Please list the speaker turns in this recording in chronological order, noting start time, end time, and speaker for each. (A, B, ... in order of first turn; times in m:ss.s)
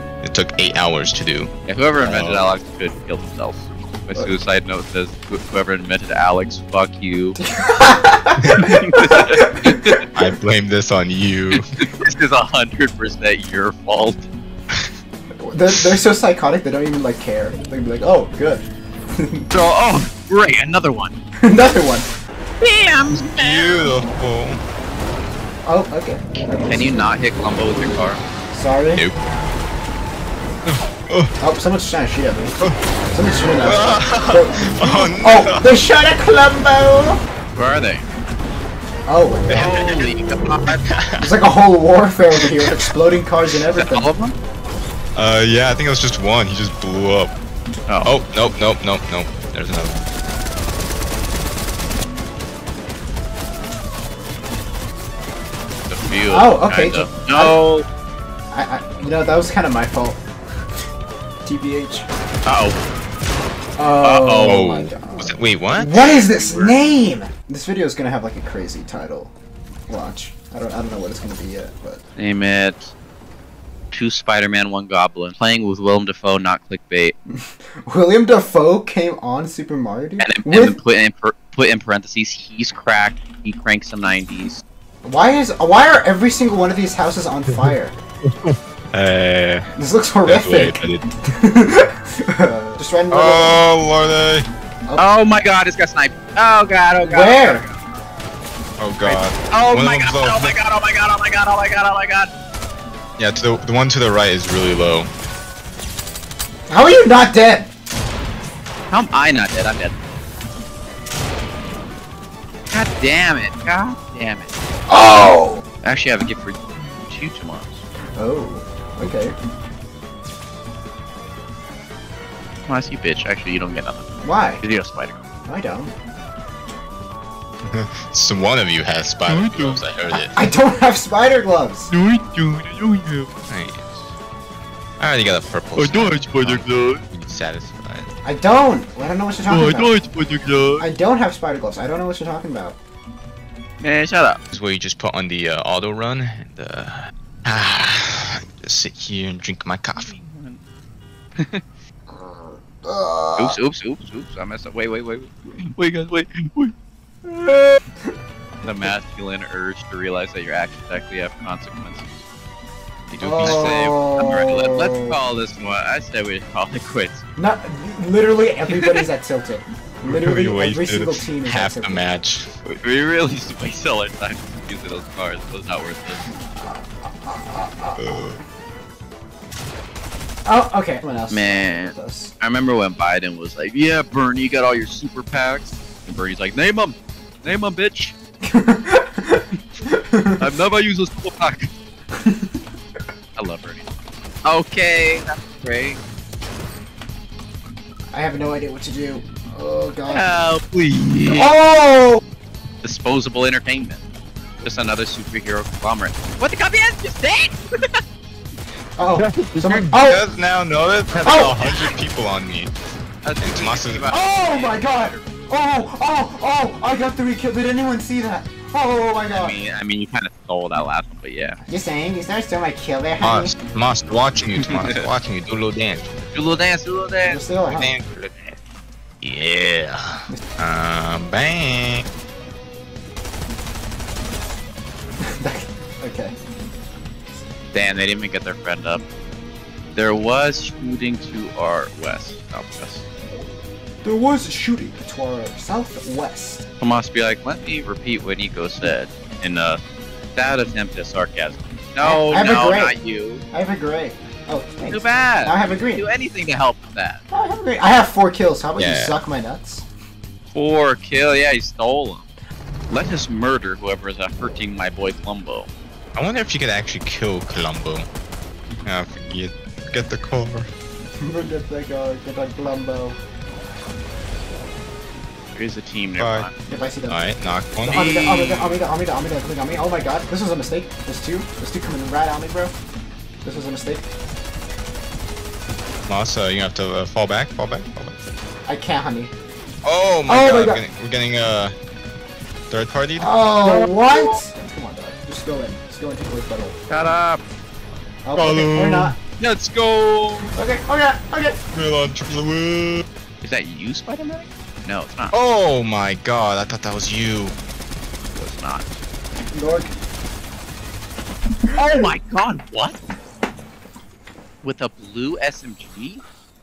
0:00.2-0:02.5 A
0:01.7-0:07.4 B
0:07.4-0:09.5 C
0:08.4-0:08.6 A
0:08.6-0:10.1 B
0:10.1-0:11.6 A
0:11.6-0:14.3 B
0:15.4-0:19.5 C
0:19.5-0:21.2 B
0:21.4-0:22.1 C
0:22.6-0:23.8 B
0:23.1-0:24.6 A
0:25.6-0:27.0 C
0:26.7-0:28.2 B
0:28.5-0:29.1 C
0:30.7-0:31.3 A
0:31.4-0:32.6 C
0:33.1-0:37.2 C
0:33.6-0:35.7 A
0:37.6-0:38.1 B
0:39.1-0:39.9 C
0:39.5-0:40.0 A
0:39.5-0:40.8 B
0:40.9-0:41.3 A
0:41.2-0:44.1 C
0:42.4-0:42.8 A
0:43.8-0:44.4 B
0:45.2-0:47.3 A
0:48.0-0:50.1 A
0:55.9-0:57.9 B
0:56.2-0:57.6 C
0:58.5-1:00.2 C
1:01.4-1:02.1 C
1:02.5-1:02.8 B
1:03.8-1:09.3 C
1:04.0-1:04.7 B
1:04.4-1:06.0 A
1:05.9-1:06.8 B
1:09.9-1:12.0 C
1:12.2-1:12.9 B
1:13.9-1:17.2 B
1:17.3-1:20.8 C
1:20.2-1:24.6 B
1:25.0-1:28.0 C
1:27.5-1:29.7 A
1:29.8-1:33.6 C
1:30.2-1:31.0 A
1:33.1-1:34.5 A
1:35.0-1:37.8 B
1:37.0-1:37.6 C
1:38.8-1:40.5 A
1:39.0-1:42.3 B
1:43.2-1:45.1 A
1:46.7-1:47.7 C
1:48.9-1:50.0 B
1:52.7-1:54.5 B
1:54.9-1:55.6 C
1:55.8-1:57.8 B
1:58.2-1:59.4 C
2:02.7-2:04.1 B
2:04.2-2:04.6 C
2:04.6-2:05.2 B
2:05.5-2:05.9 C
2:07.7-2:10.3 A
2:09.3-2:09.8 B
2:10.1-2:11.9 C
2:11.9-2:13.3 B
2:13.5-2:14.1 A
2:15.0-2:18.1 A
2:15.8-2:17.0 B
2:18.2-2:20.0 C
2:19.5-2:20.8 B
2:20.8-2:22.8 C
2:23.8-2:24.4 B
2:24.5-2:30.1 A
2:30.0-2:30.6 B
2:31.4-2:31.6 B
2:32.1-2:33.6 C
2:33.4-2:36.7 B
2:37.2-2:37.8 B
2:38.6-2:42.2 B
2:43.1-2:43.8 A
2:43.2-2:45.2 C
2:43.4-2:47.2 B
2:47.4-2:52.0 C
2:48.7-2:49.0 B
2:50.0-2:52.5 A
2:52.7-2:56.2 B
2:56.5-2:58.3 C
2:58.0-2:58.4 A
3:00.5-3:02.3 C
3:01.3-3:08.2 B
3:08.4-3:10.4 C
3:10.4-3:11.7 B
3:12.2-3:12.5 C
3:13.4-3:13.9 B
3:14.4-3:16.0 B
3:18.1-3:20.3 C
3:20.1-3:21.6 B
3:21.3-3:22.2 C
3:22.8-3:24.0 B
3:24.6-3:28.0 B
3:29.0-3:30.2 C
3:29.2-3:32.7 A
3:31.2-3:31.6 C
3:31.3-3:31.9 B
3:33.2-3:35.3 B
3:33.4-3:34.1 A
3:34.1-3:39.6 C
3:39.3-3:41.6 B
3:41.7-3:43.5 C
3:43.2-3:46.7 A
3:46.3-3:47.5 B
3:47.2-3:48.0 C
3:47.7-3:48.5 A
3:49.2-3:52.1 A
3:55.4-3:56.4 C
3:57.7-3:59.0 B
4:00.0-4:03.1 B
4:04.0-4:06.7 C
4:06.8-4:09.8 B
4:10.4-4:13.4 B
4:12.0-4:13.0 C
4:13.5-4:16.1 C
4:14.8-4:17.2 B
4:17.3-4:19.9 C
4:18.8-4:19.2 A
4:20.5-4:22.3 B
4:22.9-4:25.7 B
4:26.2-4:28.1 A
4:28.8-4:30.7 A
4:31.2-4:33.2 C
4:35.5-4:36.6 B
4:36.2-4:36.5 A
4:36.7-4:37.2 C
4:37.1-4:38.8 A
4:37.8-4:42.8 C
4:43.4-4:44.0 C
4:46.1-4:48.2 A
4:48.7-4:49.3 C
4:49.8-4:51.7 A
4:50.3-4:50.8 C
4:52.7-4:53.3 A
4:53.2-4:56.8 C
4:53.6-4:54.4 B
4:56.9-4:57.4 B
4:58.2-4:59.2 C
4:58.4-4:59.2 A
4:59.4-5:00.5 B
5:00.6-5:01.6 C
5:01.7-5:03.1 A
5:03.4-5:05.3 B
5:05.3-5:07.6 A
5:08.4-5:08.9 B
5:09.5-5:09.9 C
5:11.8-5:13.0 B
5:14.6-5:16.2 B